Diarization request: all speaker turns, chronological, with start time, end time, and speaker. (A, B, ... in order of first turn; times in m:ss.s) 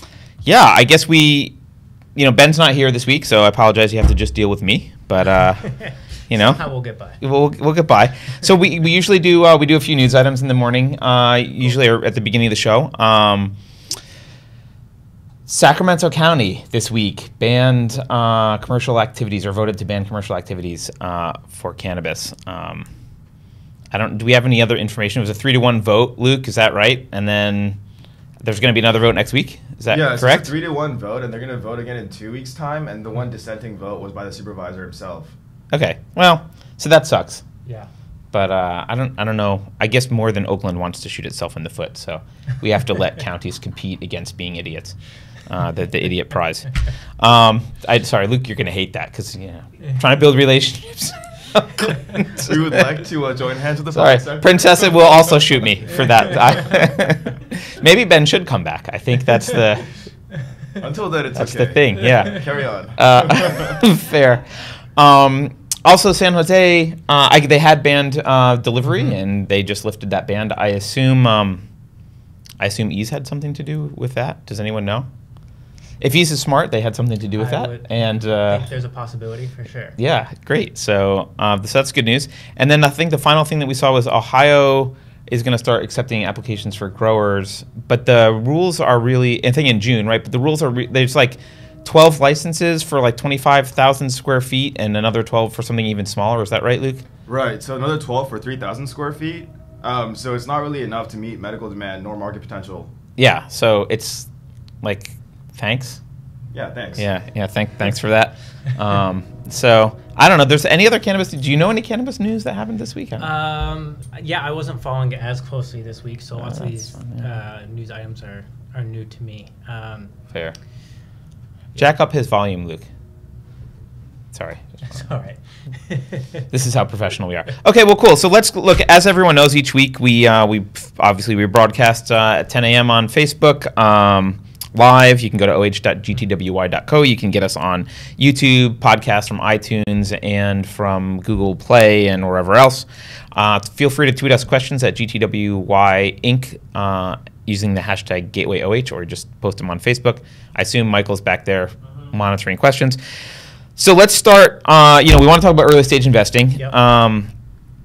0:00.4-0:01.6 A
0:02.1-0:05.7 A
0:05.6-0:07.2 B
0:06.3-0:06.6 A
0:07.2-0:13.6 A
0:15.4-0:22.9 A
0:23.9-0:27.8 A
0:28.4-0:30.5 A
0:29.9-0:35.3 C
0:35.7-0:37.4 A
0:38.3-0:52.7 A
0:52.3-0:55.4 C
0:53.9-0:59.9 A
1:00.8-1:03.7 C
1:01.3-1:11.6 A
1:12.6-1:15.1 A
1:16.0-1:18.7 A
1:17.4-1:17.9 B
1:18.5-1:20.0 B
1:20.0-1:37.0 A
1:37.3-1:42.9 C
1:43.2-1:44.3 A
1:44.8-1:46.0 A
1:46.5-1:47.1 C
1:47.0-1:53.3 A
1:53.2-2:00.1 B
1:56.4-1:57.2 A
2:01.8-2:02.9 A
2:04.3-2:05.0 A
2:04.8-2:06.5 B
2:06.5-2:33.0 A
2:33.8-2:37.3 A